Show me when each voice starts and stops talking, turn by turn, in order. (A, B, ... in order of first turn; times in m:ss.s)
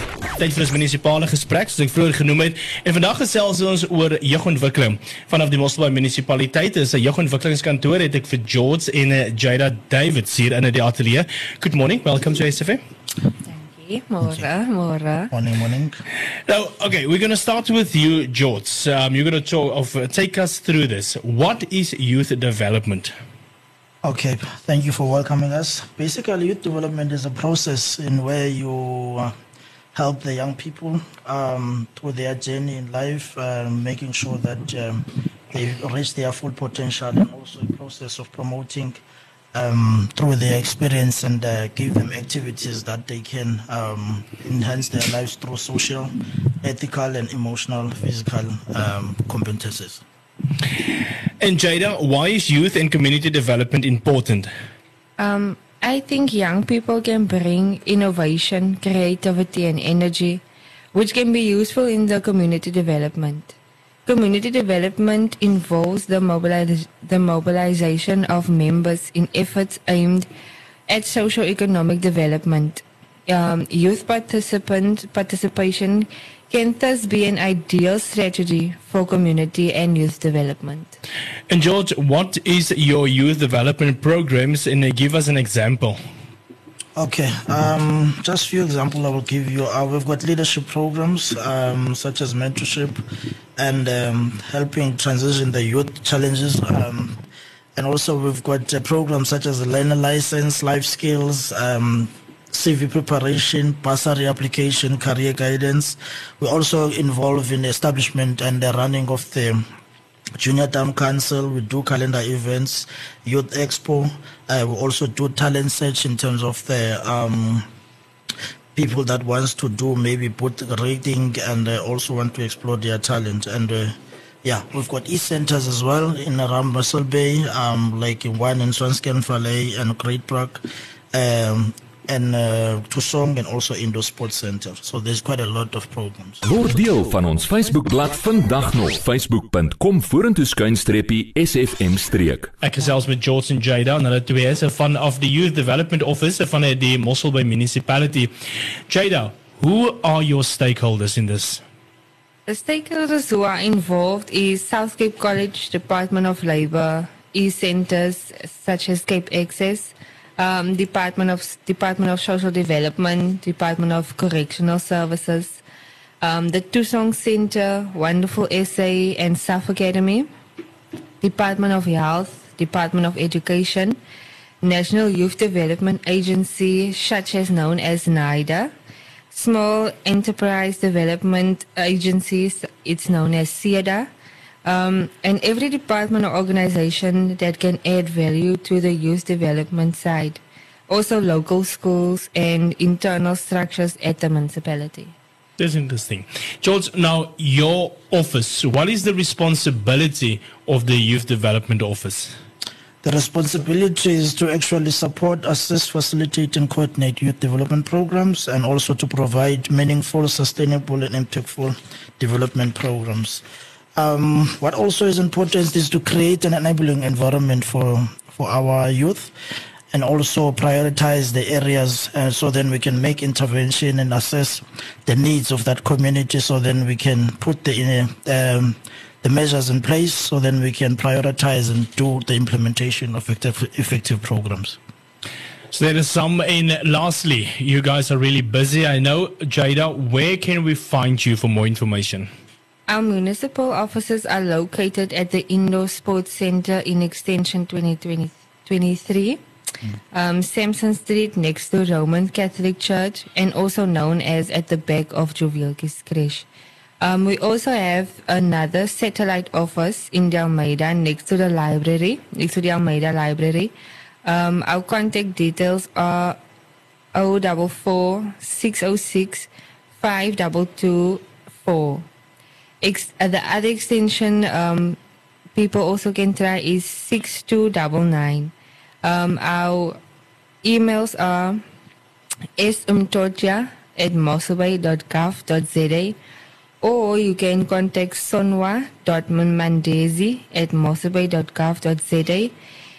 0:00.4-0:12.8 A
0:13.4-0:15.3 B
0:15.3-0:16.0 C
0:16.5-0:23.1 A
0:24.0-0:29.3 C
0:29.9-0:39.0 C
0:39.5-0:50.0 C
0:51.4-0:54.5 A
0:55.2-1:10.3 B
1:10.9-1:21.0 B
1:21.5-1:26.0 A
1:27.0-1:33.0 C
1:33.6-1:37.2 C
1:37.8-1:49.6 C
1:50.4-1:57.7 C
1:58.8-2:16.4 C
2:16.4-2:22.5 D
2:22.6-2:28.3 A
2:28.9-2:31.6 A
2:32.5-2:45.6 B
2:46.2-2:50.3 B
2:51.2-2:54.0 B
2:54.6-2:58.7 B
2:59.3-3:04.1 B
3:04.6-3:15.2 B
3:15.6-3:22.3 A
3:23.0-3:33.4 C
3:34.0-3:39.3 C
3:39.9-3:54.8 C
3:55.7-4:02.3 A
4:02.9-4:09.4 B
4:10.1-4:16.5 B
4:17.0-4:23.7 B
4:24.2-4:26.4 B
4:27.1-4:32.1 B
4:32.8-4:35.0 B
4:35.6-4:40.0 B
4:40.6-4:41.6 B
4:42.6-4:46.2 B
4:46.8-4:52.5 B